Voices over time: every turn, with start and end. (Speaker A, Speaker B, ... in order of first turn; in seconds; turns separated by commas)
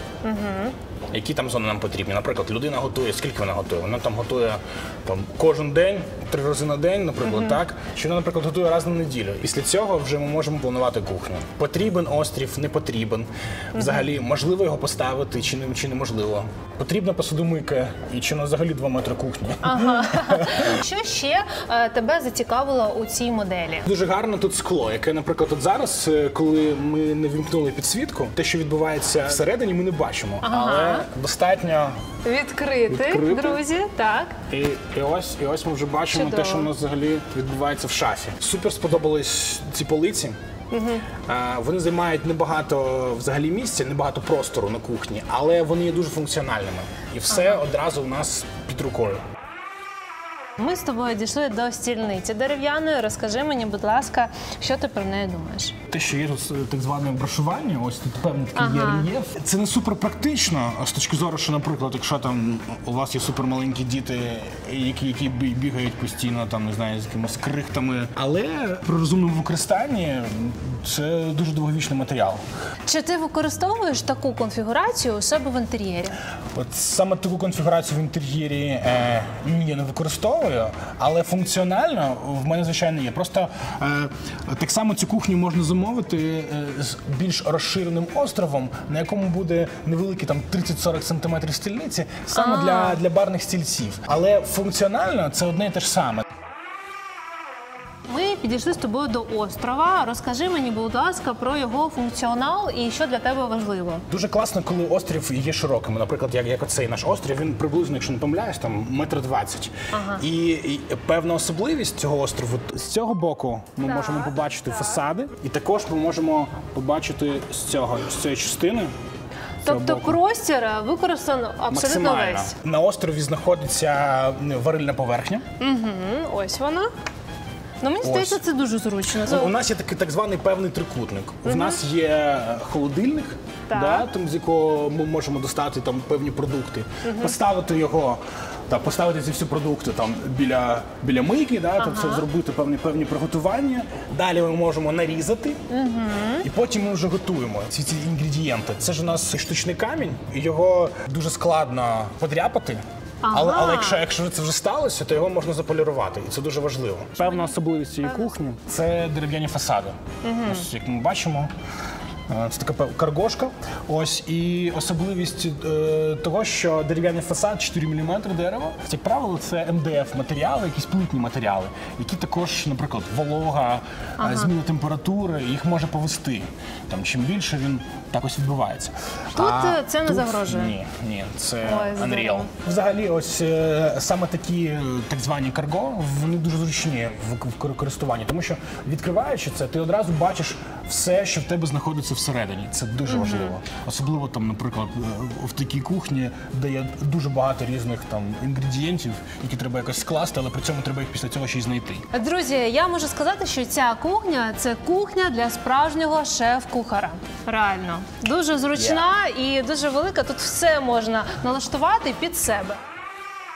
Speaker A: 0.2-0.8, Speaker B: 1.1-20.7, Speaker A: 7.2-7.6, Speaker A: 13.8-14.0, Speaker A: 19.6-23.9, Speaker B: 23.9-32.0, Speaker A: 30.4-31.1, Speaker A: 32.2-34.4, Speaker B: 32.9-33.6, Speaker B: 34.5-40.4, Speaker A: 36.1-36.7, Speaker A: 40.7-41.0, Speaker B: 41.3-49.2, Speaker A: 47.3-47.6, Speaker A: 50.6-55.7, Speaker B: 55.9-72.4, Speaker A: 58.5-59.1, Speaker A: 72.9-76.2, Speaker B: 76.5-96.2, Speaker A: 92.3-93.0, Speaker A: 98.1-104.0, Speaker B: 104.1-118.9, Speaker A: 109.9-110.2, Speaker A: 113.9-115.0, Speaker B: 119.6-120.2, Speaker A: 119.7-122.5, Speaker B: 121.7-125.5, Speaker A: 125.6-126.9, Speaker A: 127.8-129.5, Speaker B: 128.0-128.4, Speaker B: 129.2-145.6, Speaker A: 131.4-131.8, Speaker A: 133.7-134.1, Speaker A: 137.0-137.3, Speaker A: 141.8-142.3, Speaker A: 145.7-146.5, Speaker B: 146.4-161.5, Speaker A: 153.2-154.0, Speaker A: 157.2-157.5, Speaker A: 158.0-158.3, Speaker A: 160.2-160.7, Speaker B: 162.3-202.1, Speaker A: 174.2-174.5, Speaker A: 179.3-180.8, Speaker A: 181.6-182.5, Speaker A: 193.1-193.5, Speaker A: 202.1-212.8, Speaker B: 208.7-209.1